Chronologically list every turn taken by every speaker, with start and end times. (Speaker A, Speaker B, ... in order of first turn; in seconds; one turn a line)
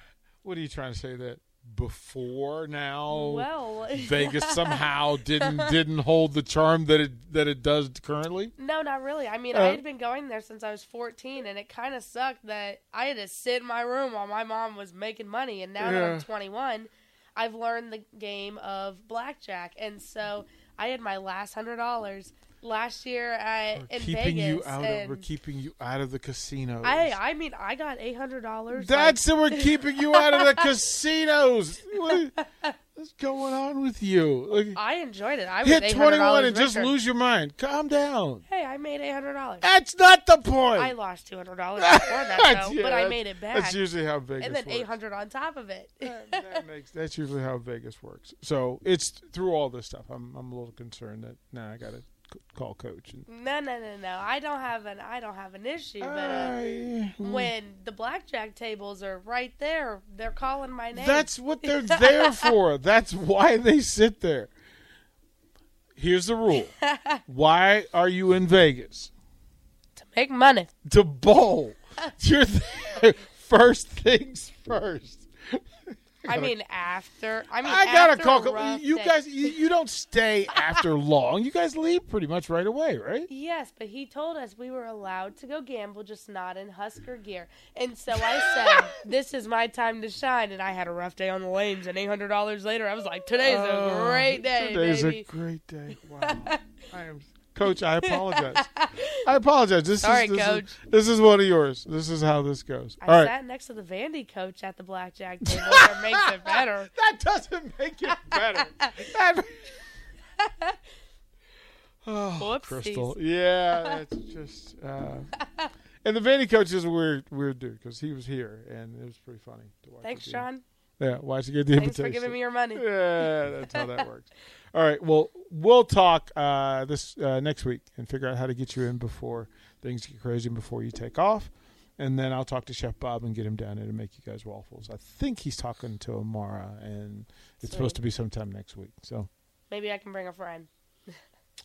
Speaker A: 0.4-8.5
Speaker B: 3.1-4.8
Speaker B: 5.4-5.7
Speaker B: 8.6-25.3
Speaker A: 9.5-9.8
Speaker A: 15.8-16.2
Speaker A: 23.7-27.2
Speaker B: 26.8-30.7
Speaker A: 28.7-32.4
Speaker A: 33.0-34.8
Speaker B: 34.7-36.9
Speaker A: 35.6-38.4
Speaker B: 38.5-39.7
Speaker A: 39.6-40.9
Speaker B: 40.8-43.8
Speaker A: 41.8-44.9
Speaker B: 44.4-46.6
Speaker A: 46.0-53.3
Speaker B: 53.3-56.6
Speaker A: 56.0-57.5
Speaker B: 57.2-62.5
Speaker A: 60.9-64.5
Speaker A: 66.0-66.8
Speaker B: 66.8-67.2
Speaker A: 67.3-69.1
Speaker B: 70.0-70.7
Speaker A: 70.8-75.6
Speaker A: 76.2-76.5
Speaker B: 76.3-79.5
Speaker A: 77.6-83.3
Speaker B: 83.3-95.3
Speaker A: 88.5-88.8
Speaker A: 93.4-98.7
Speaker B: 96.2-96.6
Speaker B: 98.0-99.2
Speaker A: 99.2-103.3
Speaker B: 100.0-100.8
Speaker B: 103.0-106.9
Speaker A: 105.5-109.8
Speaker B: 108.1-108.9
Speaker B: 110.4-110.8
Speaker A: 112.0-115.3
Speaker B: 112.4-113.2
Speaker A: 116.0-120.5
Speaker B: 120.0-120.6
Speaker A: 121.0-139.3
Speaker B: 121.8-122.9
Speaker B: 137.6-138.0
Speaker B: 139.7-141.2